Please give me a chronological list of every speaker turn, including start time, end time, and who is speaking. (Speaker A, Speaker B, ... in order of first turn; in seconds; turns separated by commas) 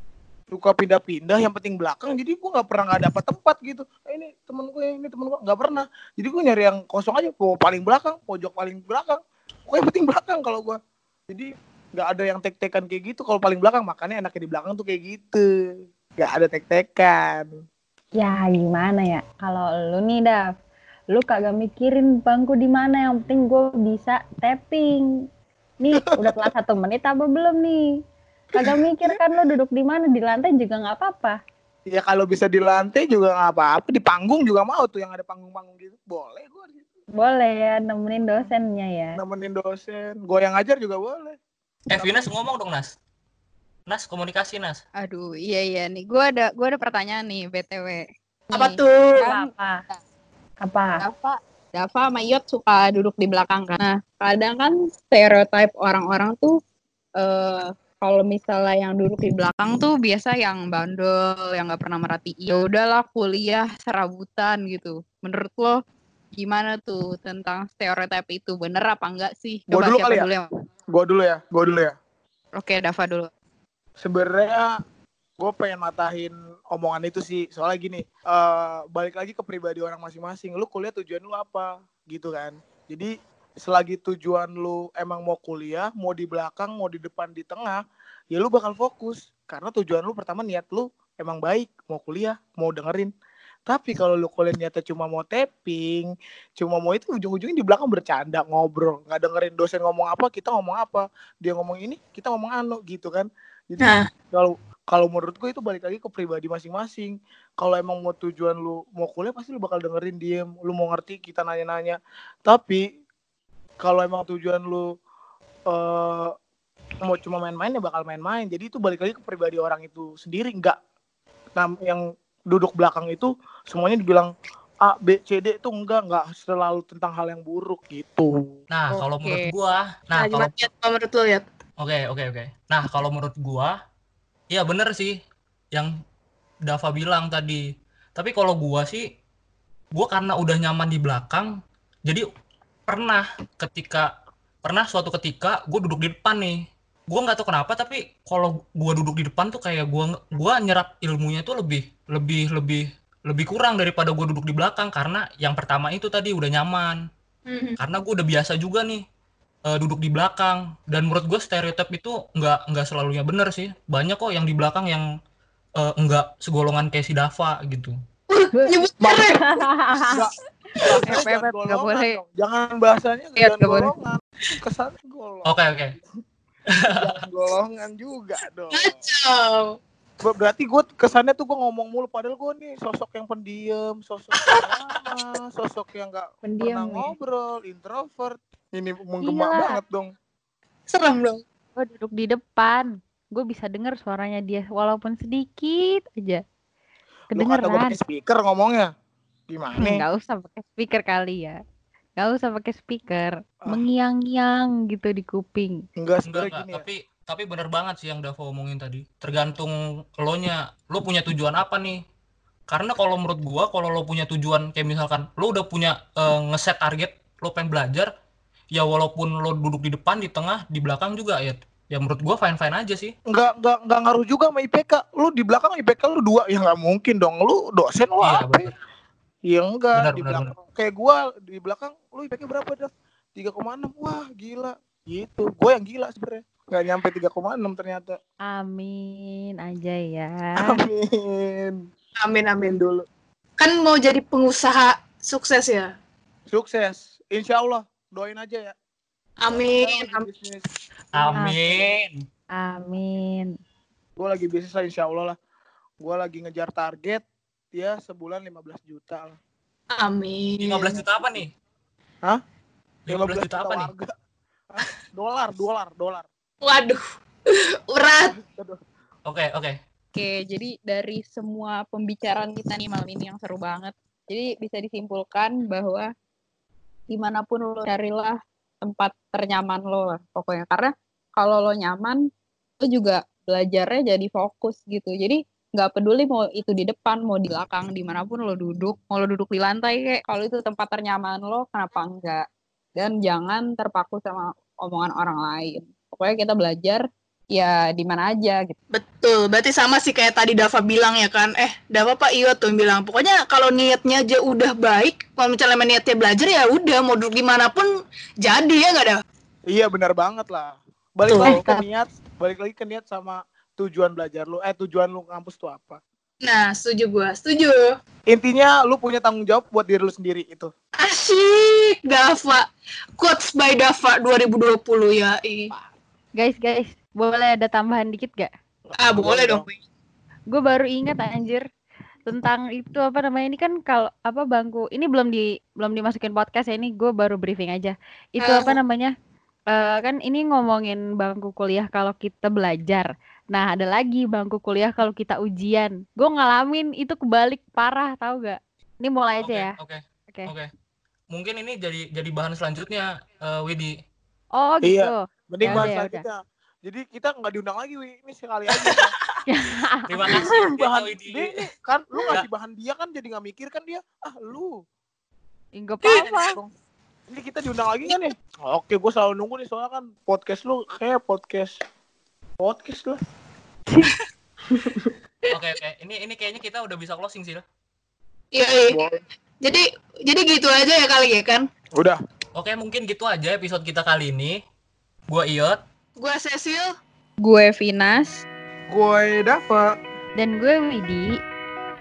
Speaker A: 0.5-10.8, Speaker A: 11.3-15.4, Speaker A: 16.2-17.5, Speaker B: 18.2-20.5, Speaker B: 21.1-25.1, Speaker B: 25.8-27.8, Speaker A: 26.0-26.5, Speaker B: 28.6-31.4, Speaker A: 28.6-29.2, Speaker A: 31.9-36.9, Speaker B: 37.2-39.1, Speaker A: 39.2-41.4, Speaker C: 41.9-42.9, Speaker A: 42.0-42.3, Speaker C: 43.9-44.8, Speaker D: 45.0-50.0, Speaker E: 48.5-49.3, Speaker B: 49.2-49.8, Speaker B: 50.6-51.0, Speaker D: 51.0-56.5, Speaker D: 57.2-65.8, Speaker D: 66.4-70.5, Speaker A: 69.7-70.3, Speaker A: 70.9-71.9, Speaker D: 72.6-73.3, Speaker A: 74.0-74.7, Speaker A: 75.4-83.1, Speaker A: 83.6-87.8, Speaker A: 88.3-93.1, Speaker A: 93.7-112.8, Speaker E: 103.8-104.0, Speaker A: 113.8-114.9, Speaker A: 115.7-116.3, Speaker A: 117.0-120.8, Speaker A: 121.6-124.3, Speaker A: 124.8-128.4, Speaker C: 128.7-130.5, Speaker D: 128.9-129.5, Speaker E: 130.1-131.4, Speaker C: 131.8-133.8, Speaker C: 134.5-135.1, Speaker C: 136.7-137.6, Speaker C: 138.2-139.0, Speaker C: 139.9-141.5, Speaker C: 142.9-144.1, Speaker C: 144.6-146.6, Speaker C: 147.1-157.0, Speaker E: 157.5-157.8, Speaker C: 157.8-159.0, Speaker C: 159.7-165.1, Speaker C: 165.8-167.9, Speaker E: 168.3-169.6, Speaker B: 168.5-170.2, Speaker A: 170.1-175.6, Speaker E: 170.8-171.0, Speaker D: 171.1-172.2, Speaker D: 173.4-173.9, Speaker C: 175.4-176.0, Speaker C: 176.7-177.1, Speaker A: 176.9-179.0, Speaker E: 178.7-179.8, Speaker A: 180.2-190.1, Speaker B: 186.4-187.1, Speaker B: 189.2-189.8, Speaker E: 190.9-191.4, Speaker B: 191.8-196.4, Speaker B: 197.3-198.0, Speaker A: 197.3-198.9, Speaker A: 199.5-200.0, Speaker B: 199.8-201.6, Speaker B: 202.2-205.8, Speaker A: 206.0-206.8, Speaker C: 206.3-212.0, Speaker C: 212.7-218.1, Speaker C: 218.7-223.1, Speaker A: 223.3-228.7, Speaker C: 228.2-228.7, Speaker A: 229.5-238.2, Speaker C: 230.0-230.5, Speaker B: 238.5-240.8, Speaker A: 240.6-241.8, Speaker E: 242.2-242.8, Speaker A: 242.6-243.1, Speaker E: 243.6-245.9, Speaker A: 246.5-248.8, Speaker E: 249.4-250.2, Speaker A: 249.5-251.3, Speaker C: 251.1-252.2, Speaker B: 252.5-253.5, Speaker A: 254.2-255.3, Speaker A: 256.0-259.4, Speaker E: 259.9-261.0, Speaker C: 260.6-261.5, Speaker C: 263.1-263.9, Speaker A: 263.1-264.1, Speaker A: 264.7-266.3, Speaker E: 266.6-268.3, Speaker A: 268.3-268.8, Speaker C: 269.2-269.8, Speaker D: 270.1-276.1, Speaker D: 277.1-282.2, Speaker D: 282.8-292.4, Speaker D: 292.9-298.8, Speaker E: 298.9-307.9, Speaker E: 308.4-309.2, Speaker A: 309.7-316.0, Speaker E: 311.3-311.6, Speaker B: 311.4-311.8, Speaker E: 316.4-317.8, Speaker A: 318.3-320.7, Speaker E: 321.0-322.6, Speaker E: 323.2-325.7, Speaker B: 326.4-328.5, Speaker A: 328.9-329.6, Speaker E: 329.0-329.8, Speaker B: 330.5-331.7, Speaker B: 332.3-339.1, Speaker E: 338.4-338.8, Speaker B: 339.7-349.8, Speaker C: 349.4-350.7, Speaker C: 351.3-353.9, Speaker B: 354.6-356.2, Speaker A: 354.8-359.1, Speaker C: 355.6-355.9, Speaker B: 359.5-360.1, Speaker C: 360.1-361.5, Speaker A: 360.6-364.7, Speaker B: 365.8-366.6, Speaker A: 367.3-371.7, Speaker A: 372.6-373.2, Speaker A: 374.7-375.1, Speaker C: 375.5-377.6, Speaker E: 378.5-379.0, Speaker A: 378.9-379.2, Speaker E: 379.6-381.6, Speaker C: 382.5-384.6, Speaker C: 385.3-385.8, Speaker E: 386.2-386.9, Speaker D: 387.4-388.4, Speaker A: 388.9-389.9, Speaker B: 390.4-391.3